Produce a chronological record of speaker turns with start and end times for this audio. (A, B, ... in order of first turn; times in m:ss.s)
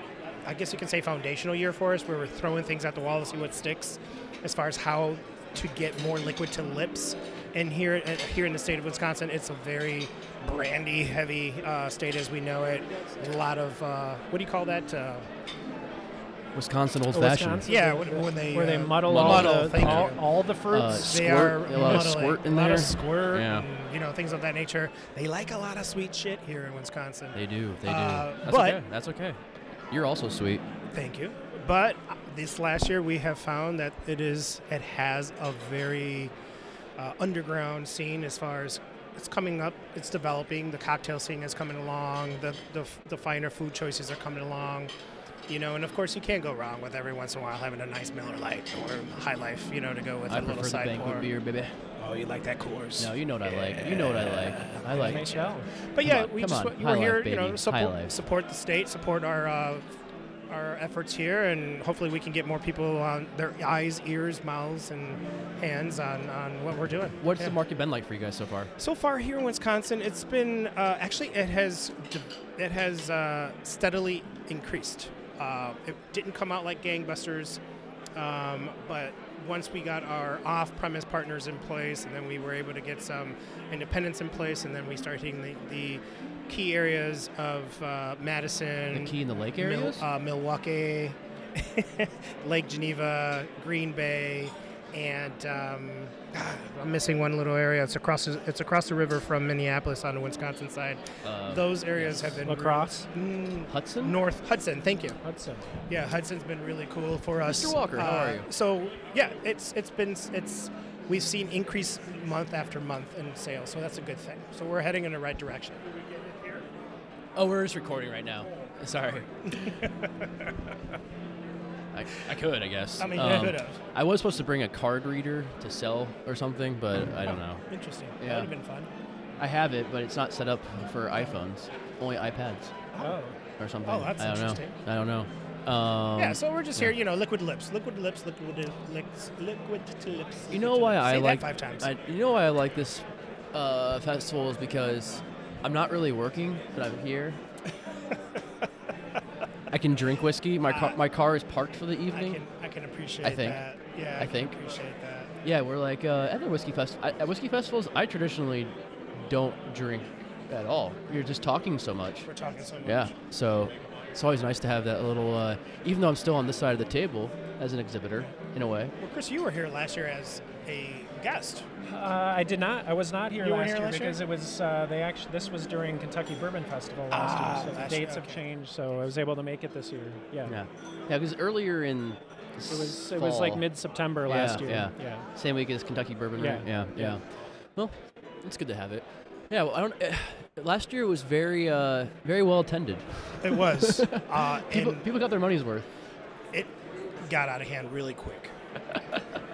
0:00.4-0:15.3 A
0:16.6-0:17.7 B
0:17.1-0:21.1 C
0:17.6-0:20.2 A
0:19.1-0:20.1 B
0:20.7-0:23.7 B
0:21.0-0:28.8 A
0:27.4-0:29.4 B
0:29.9-0:30.6 B
0:30.9-0:36.3 A
0:37.0-0:44.9 A
0:45.5-0:51.3 A
0:50.3-0:51.7 B
0:52.0-0:59.9 A
0:53.0-0:55.3 B
0:54.9-0:55.7 C
0:56.0-0:58.2 B
1:00.5-1:07.6 A
1:07.2-1:08.7 B
1:08.8-1:17.6 A
1:18.2-1:45.2 A
1:28.9-1:30.0 B
1:41.2-1:42.4 B
1:42.4-1:43.1 C
1:43.7-1:44.2 B
1:45.2-1:45.7 C
1:45.9-1:55.8 A
1:47.5-1:48.5 B
1:57.4-1:59.7 B
1:59.5-2:00.7 A
2:01.9-2:07.6 B
2:03.0-2:03.8 A
2:07.3-2:08.9 A
2:08.2-2:08.5 B
2:09.4-2:12.7 B
2:12.9-2:13.2 A
2:13.0-2:13.4 C
2:13.6-2:16.9 B
2:13.8-2:14.8 A
2:16.2-2:21.9 A
2:20.5-2:27.4 B
2:29.7-2:32.4 B
2:30.7-2:31.0 A
2:32.1-2:35.3 A
2:33.2-2:33.6 B
2:34.2-2:34.5 B
2:35.4-2:42.3 B
2:42.2-2:43.1 A
2:42.8-2:48.9 B
2:49.0-2:51.7 A
2:51.8-3:00.6 C
2:53.4-2:54.2 A
2:57.1-2:58.4 A
3:00.5-3:03.6 B
3:02.7-3:05.3 C
3:04.3-3:07.2 B
3:06.4-3:07.2 C
3:07.8-3:15.9 B
3:13.4-3:15.1 A
3:17.2-3:18.5 A